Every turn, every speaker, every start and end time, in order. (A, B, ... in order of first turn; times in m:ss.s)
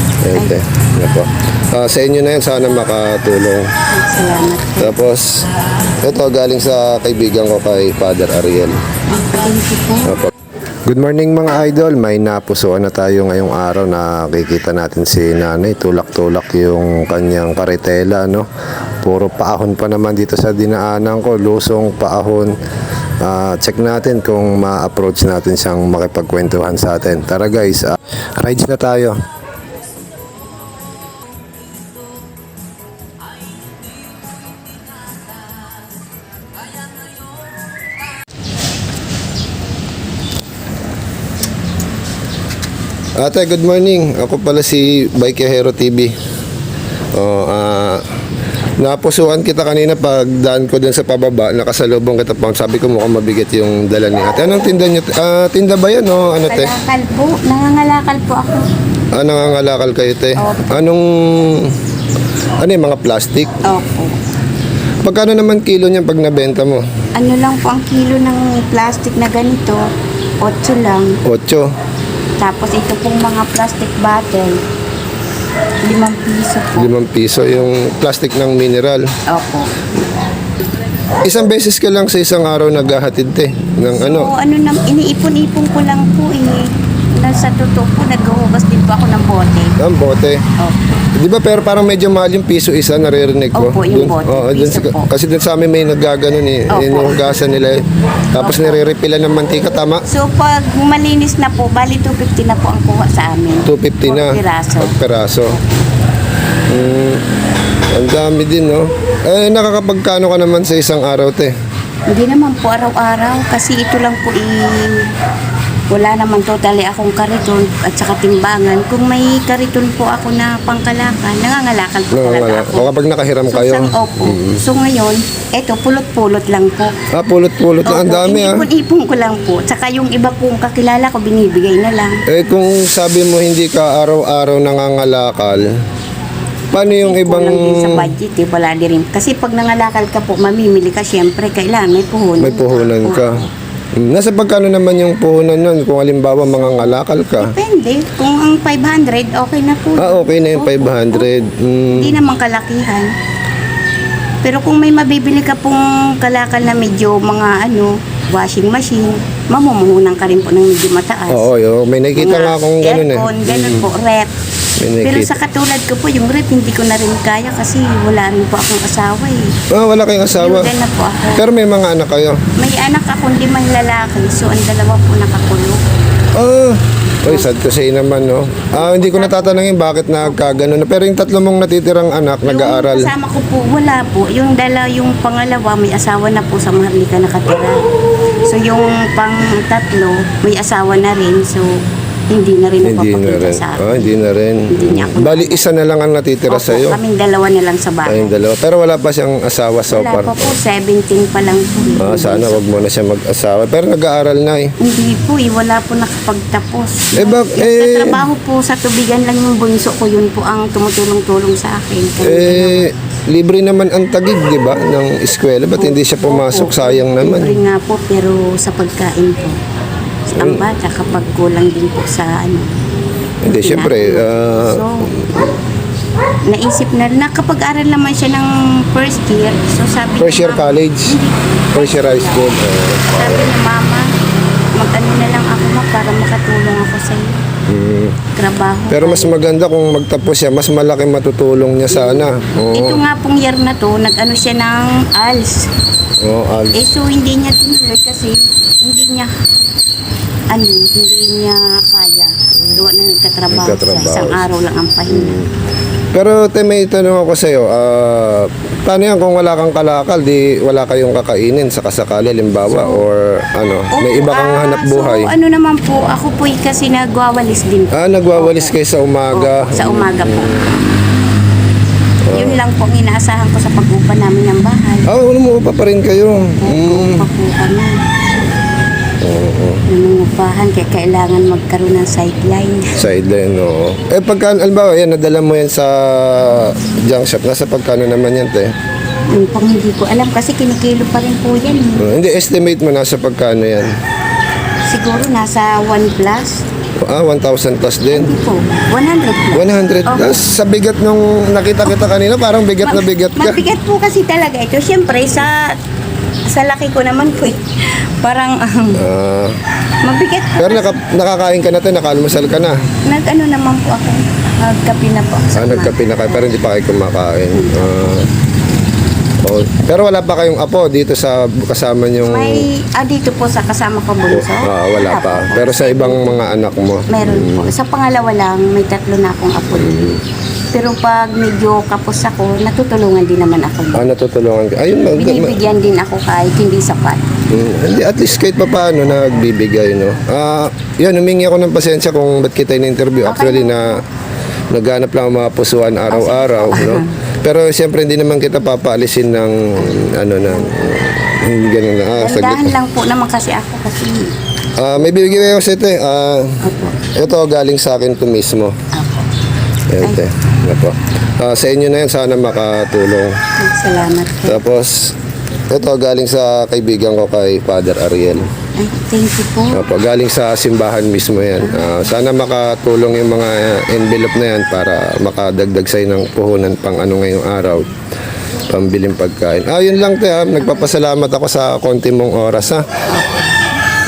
0:00.2-0:03.7 A
0:03.9-0:05.0 B
0:04.8-0:05.4 A
0:06.0-0:08.8 A
0:09.1-0:10.1 B
0:10.0-0:10.3 A
0:10.9-0:18.5 A
0:19.0-0:22.5 A
0:23.2-0:29.2 A
0:43.2-0:46.2 A
0:47.1-0:48.0 A
0:48.8-0:56.7 A
0:56.4-0:58.7 B
0:59.1-1:01.8 A
1:00.4-1:00.8 B
1:02.6-1:03.6 A
1:03.6-1:04.2 B
1:05.0-1:06.8 A
1:07.2-1:09.8 B
1:10.4-1:11.2 B
1:11.2-1:11.7 A
1:12.4-1:14.6 B
1:15.8-1:16.9 B
1:16.8-1:19.1 A
1:19.3-1:19.9 B
1:21.2-1:24.3 A
1:24.0-1:29.8 B
1:29.8-1:30.4 A
1:31.2-1:40.0 A
1:33.6-1:35.1 B
1:36.7-1:37.4 B
1:38.4-1:38.9 B
1:40.1-1:45.0 B
1:43.6-1:45.6 A
1:46.7-1:47.2 A
1:47.9-1:51.6 A
1:52.1-1:55.1 B
1:55.9-2:06.9 B
2:02.1-2:04.6 A
2:07.1-2:08.7 A
2:07.8-2:12.2 B
2:12.3-2:15.8 A
2:16.7-2:18.2 A
2:16.8-2:23.5 B
2:22.4-2:23.4 A
2:24.0-2:27.6 A
2:26.6-2:31.3 B
2:30.0-2:32.2 A
2:31.9-2:33.1 B
2:34.4-2:41.5 B
2:41.3-2:43.9 A
2:42.2-2:44.3 B
2:44.8-2:45.4 A
2:45.0-2:49.5 B
2:49.7-2:50.7 A
2:50.3-2:51.5 B
2:51.4-2:52.4 A
2:52.6-2:55.8 B
2:56.3-3:03.1 A
2:57.3-2:57.6 B
2:58.7-2:59.7 B
3:00.2-3:00.6 B
3:02.4-3:07.8 B
3:08.5-3:11.8 B
3:12.3-3:14.1 B
3:12.8-3:17.0 A
3:14.7-3:15.6 B
3:16.5-3:18.3 B
3:18.0-3:20.6 A
3:19.9-3:22.6 B
3:22.0-3:24.7 A
3:24.8-3:32.9 B
3:27.2-3:28.3 A
3:32.2-3:37.6 A
3:35.8-3:39.6 B
3:40.3-3:42.8 B
3:40.4-3:40.7 A
3:43.4-3:45.6 A
3:43.5-3:45.1 B
3:46.5-3:54.1 B
3:50.2-3:51.2 A
3:51.8-3:53.5 A
3:54.8-3:57.4 B
3:57.7-3:58.2 A
3:58.4-3:59.4 B
3:58.9-4:03.0 A
4:01.9-4:05.7 B
4:06.2-4:06.8 A
4:06.7-4:09.3 B
4:10.5-4:15.4 B
4:12.6-4:12.8 A
4:13.5-4:14.4 A
4:15.1-4:15.5 A
4:16.1-4:25.4 A
4:22.6-4:23.0 B
4:23.9-4:28.8 B
4:27.9-4:30.7 A
4:29.3-4:30.8 B
4:32.3-4:32.6 A
4:32.3-4:35.1 B
4:35.1-4:37.3 A
4:36.6-4:38.0 B
4:39.2-4:39.8 A
4:39.9-4:43.0 B
4:43.0-4:48.7 A
4:49.3-4:52.1 B
4:52.0-4:53.9 A
4:54.9-4:56.6 B
4:57.0-4:58.4 A
4:58.1-5:00.4 B
4:59.5-5:03.6 A
5:02.8-5:05.8 B
5:06.5-5:09.0 B
5:09.0-5:09.6 A
5:10.0-5:11.0 B
5:10.6-5:12.8 A
5:13.1-5:16.5 B
5:15.6-5:18.3 A
5:17.5-5:18.1 B
5:19.4-5:22.7 A
5:22.2-5:26.5 B
5:24.3-5:27.7 A
5:27.1-5:30.2 B
5:29.7-5:30.2 A
5:30.7-5:34.1 B
5:34.0-5:35.6 A
5:35.1-5:37.2 B
5:37.5-5:44.0 A
5:43.2-5:44.0 B
5:44.7-5:52.8 A
5:46.1-5:47.2 B
5:52.1-5:54.3 B
5:54.8-5:58.8 A
5:55.1-5:55.5 B
5:56.6-5:57.0 B
5:58.9-5:59.3 B
5:59.9-6:03.4 A
6:03.6-6:04.6 B
6:04.4-6:05.1 A
6:05.7-6:08.5 A
6:08.8-6:09.8 B
6:09.7-6:17.9 A
6:11.6-6:12.1 B
6:18.7-6:22.9 A
6:23.1-6:23.6 B